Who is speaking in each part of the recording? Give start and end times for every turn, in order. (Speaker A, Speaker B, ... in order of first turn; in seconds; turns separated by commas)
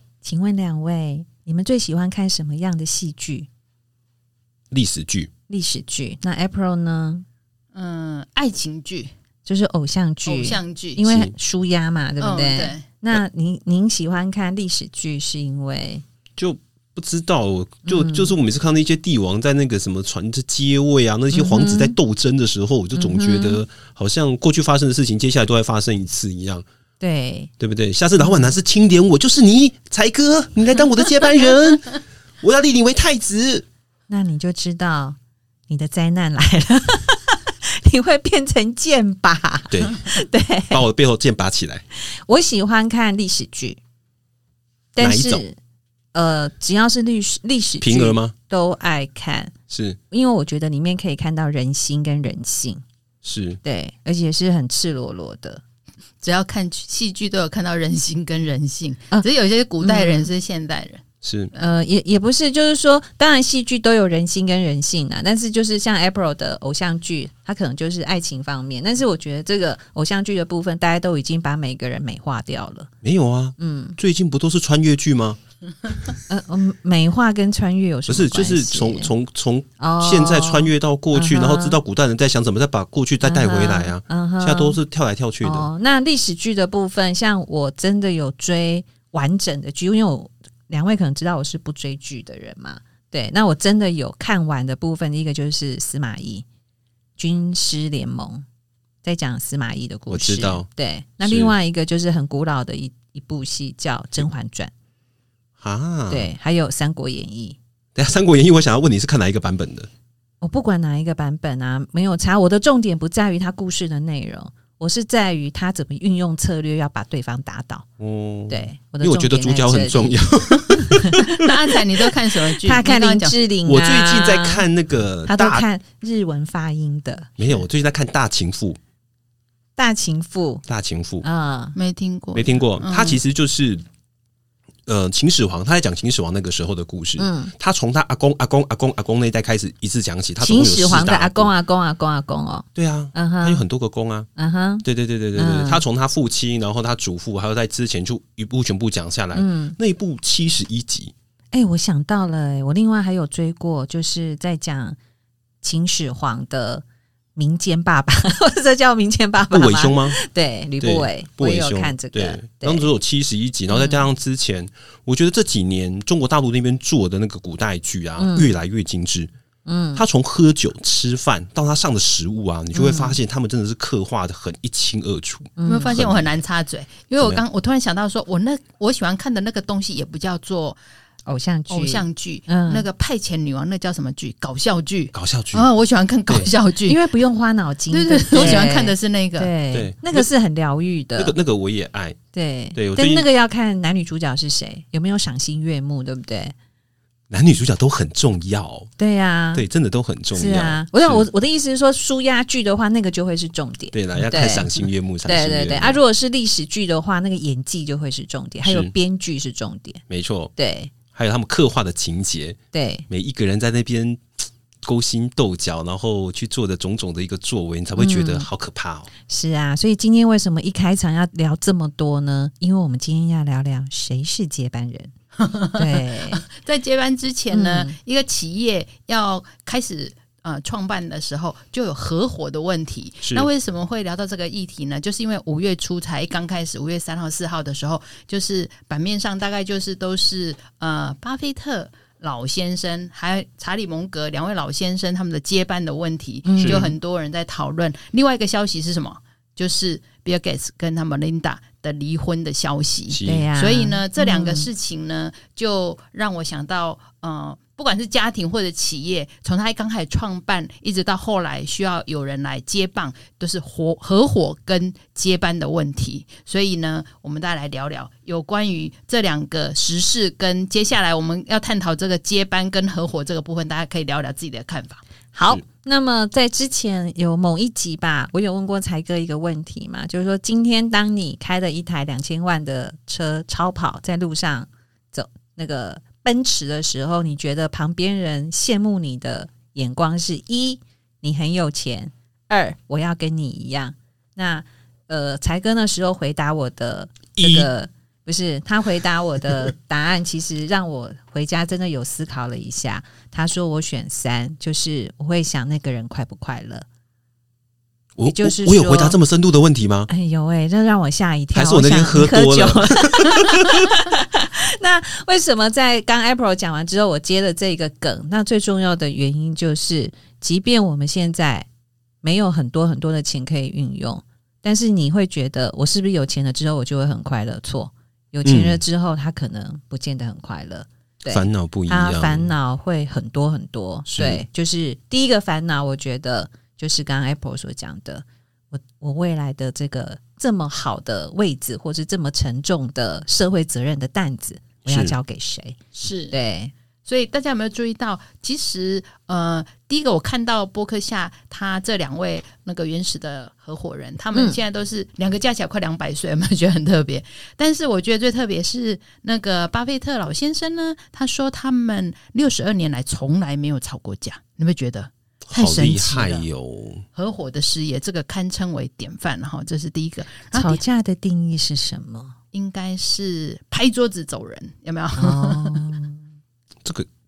Speaker A: 0.2-3.5, Speaker B: 4.7-5.3, Speaker A: 5.5-7.2, Speaker C: 7.7-9.1, Speaker A: 9.4-16.0, Speaker C: 10.2-11.0, Speaker B: 11.0-11.3, Speaker C: 12.2-12.8, Speaker B: 16.4-26.6, Speaker A: 17.9-18.4, Speaker A: 21.3-21.9, Speaker A: 22.9-23.6, Speaker A: 27.0-27.5, Speaker B: 27.6-33.6, Speaker A: 28.2-28.5, Speaker A: 34.1-35.2, Speaker A: 35.7-40.8, Speaker B: 39.7-40.0, Speaker B: 40.7-41.8, Speaker A: 42.1-43.8, Speaker A: 44.9-45.6, Speaker B: 45.0-45.4, Speaker A: 46.1-49.5, Speaker B: 47.8-48.3, Speaker B: 49.7-50.0, Speaker A: 50.1-52.8, Speaker B: 53.2-53.6, Speaker A: 53.6-55.6, Speaker C: 56.2-61.7, Speaker A: 59.8-60.3, Speaker B: 61.2-61.5, Speaker A: 61.5-72.9, Speaker B: 73.0-76.0, Speaker A: 73.6-74.0, Speaker A: 76.3-79.1, Speaker B: 78.1-85.7, Speaker A: 79.8-81.8, Speaker A: 83.2-84.8, Speaker A: 85.4-96.4, Speaker A: 97.2-98.4, Speaker A: 99.0-104.7, Speaker B: 100.1-100.7, Speaker B: 101.2-101.5, Speaker B: 105.6-106.3, Speaker A: 106.1-107.6, Speaker B: 107.9-109.9, Speaker A: 110.4-117.8, Speaker B: 118.0-121.6, Speaker A: 118.5-121.3, Speaker C: 121.3-123.4, Speaker A: 122.6-124.7, Speaker B: 123.6-125.6, Speaker A: 125.2-127.3, Speaker B: 127.4-128.8, Speaker A: 129.8-130.6, Speaker B: 130.7-131.2, Speaker A: 131.2-131.8, Speaker C: 131.7-133.2, Speaker B: 132.3-133.8, Speaker B: 134.8-141.5, Speaker A: 137.2-137.5, Speaker A: 140.4-143.6, Speaker B: 142.8-144.3, Speaker A: 144.3-145.8, Speaker B: 144.8-151.1, Speaker A: 149.3-149.8, Speaker A: 151.5-155.0, Speaker A: 155.6-156.8, Speaker A: 157.3-162.9, Speaker B: 159.5-160.2, Speaker B: 160.8-169.3, Speaker A: 163.7-164.1, Speaker A: 168.2-168.5, Speaker A: 169.7-170.0, Speaker B: 169.9-176.3, Speaker A: 172.7-173.2, Speaker A: 175.6-176.1, Speaker C: 175.7-180.8, Speaker B: 177.2-177.4, Speaker A: 181.3-182.8, Speaker C: 181.7-187.0, Speaker B: 185.1-185.7, Speaker A: 186.8-191.3, Speaker C: 187.9-189.5, Speaker B: 188.3-188.7, Speaker B: 189.7-190.3, Speaker B: 191.2-192.2, Speaker A: 192.3-196.5, Speaker B: 192.7-193.3, Speaker B: 197.3-198.9, Speaker A: 199.0-199.7, Speaker B: 199.5-201.3, Speaker A: 200.3-210.0, Speaker B: 203.9-206.0, Speaker B: 208.6-208.9, Speaker B: 210.1-210.5, Speaker A: 210.6-210.9, Speaker B: 211.1-212.6, Speaker A: 212.7-213.0, Speaker B: 213.1-214.2, Speaker B: 214.8-219.1, Speaker A: 218.0-218.5, Speaker A: 219.3-225.1, Speaker C: 225.4-275.0, Speaker A: 225.7-226.4, Speaker A: 227.5-227.9, Speaker B: 233.2-233.5, Speaker A: 246.4-246.9, Speaker B: 246.6-246.9, Speaker B: 253.1-253.5, Speaker A: 253.2-254.7, Speaker A: 275.3-306.9, Speaker B: 297.3-297.7, Speaker B: 308.2-310.1, Speaker A: 308.2-309.2, Speaker A: 310.1-321.7, Speaker B: 311.5-313.9, Speaker A: 322.2-345.8, Speaker B: 328.4-328.8, Speaker B: 331.3-332.5, Speaker B: 334.1-334.4, Speaker B: 344.8-345.1, Speaker C: 345.9-346.3, Speaker A: 346.3-346.7, Speaker C: 347.1-366.4, Speaker B: 365.5-367.1, Speaker C: 367.1-370.8, Speaker A: 370.5-372.3, Speaker C: 372.5-375.8, Speaker A: 375.1-376.2